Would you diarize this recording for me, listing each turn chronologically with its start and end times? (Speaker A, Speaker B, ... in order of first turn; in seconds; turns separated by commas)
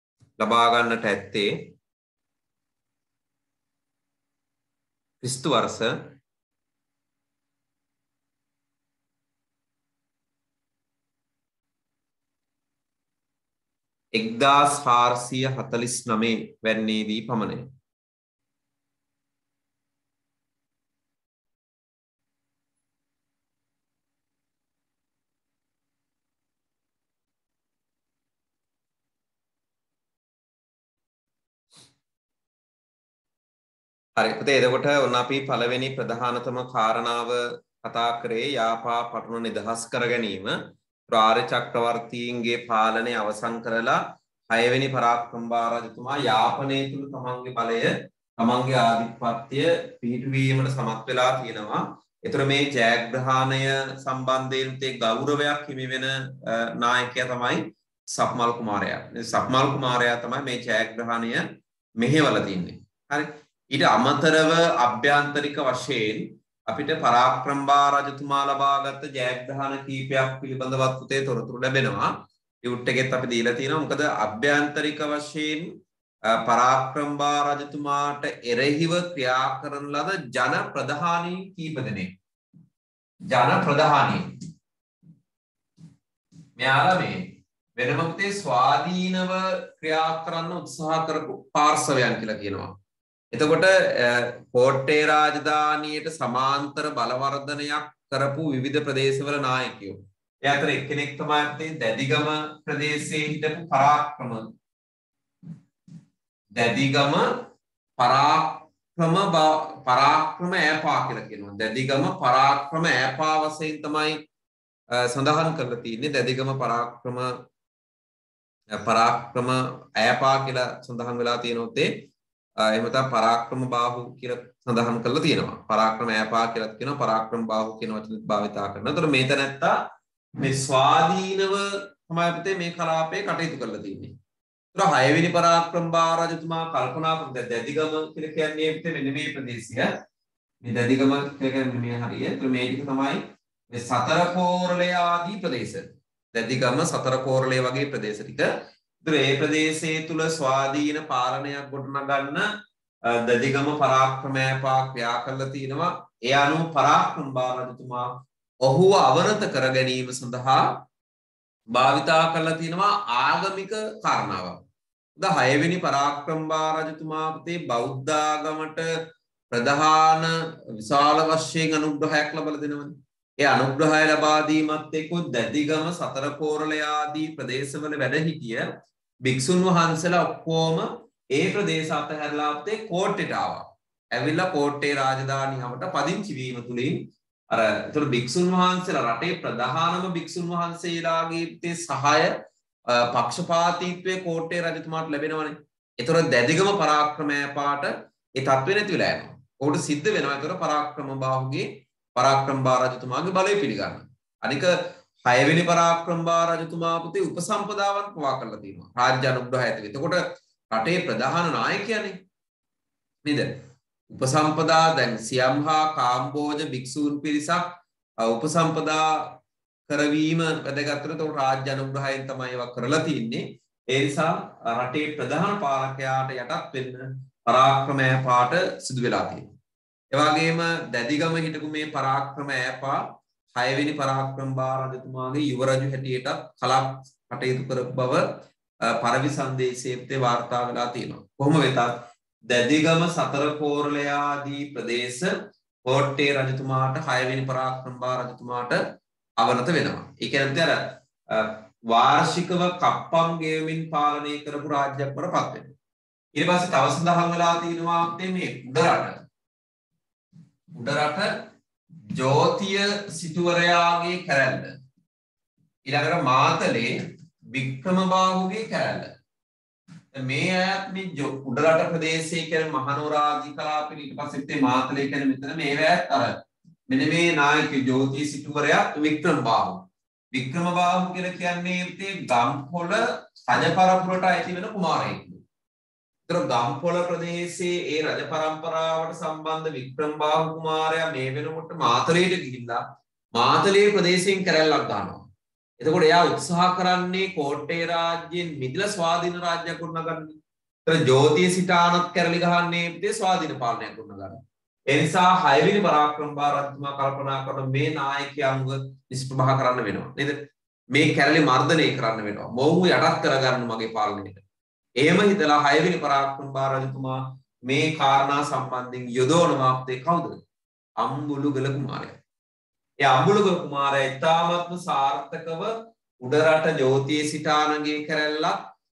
Speaker A: 0.4-1.7, Speaker A: 5.2-6.1, Speaker A: 14.1-17.7, Speaker A: 34.2-61.5, Speaker A: 62.0-75.7, Speaker A: 76.3-82.1, Speaker A: 83.3-84.3, Speaker A: 86.6-92.8, Speaker A: 93.3-104.5, Speaker A: 106.5-107.5, Speaker A: 108.0-114.2, Speaker A: 114.9-117.4, Speaker A: 118.7-122.0, Speaker A: 122.6-129.8, Speaker A: 130.4-134.1, Speaker A: 134.7-139.9, Speaker A: 140.6-152.5, Speaker A: 153.1-160.8, Speaker A: 161.7-164.6, Speaker A: 165.2-168.9, Speaker A: 169.5-178.7, Speaker A: 179.2-192.3, Speaker A: 192.9-212.2, Speaker A: 213.2-229.5, Speaker A: 230.1-245.3, Speaker A: 245.8-248.8, Speaker A: 249.4-255.7, Speaker A: 256.3-259.2, Speaker A: 260.7-261.5, Speaker A: 262.1-264.8, Speaker A: 265.8-267.0, Speaker A: 267.5-269.1, Speaker A: 270.1-285.4, Speaker A: 286.3-292.8, Speaker A: 293.3-295.2, Speaker A: 295.8-310.4, Speaker A: 310.9-314.4, Speaker A: 315.0-320.4, Speaker A: 321.0-322.2, Speaker A: 323.0-328.6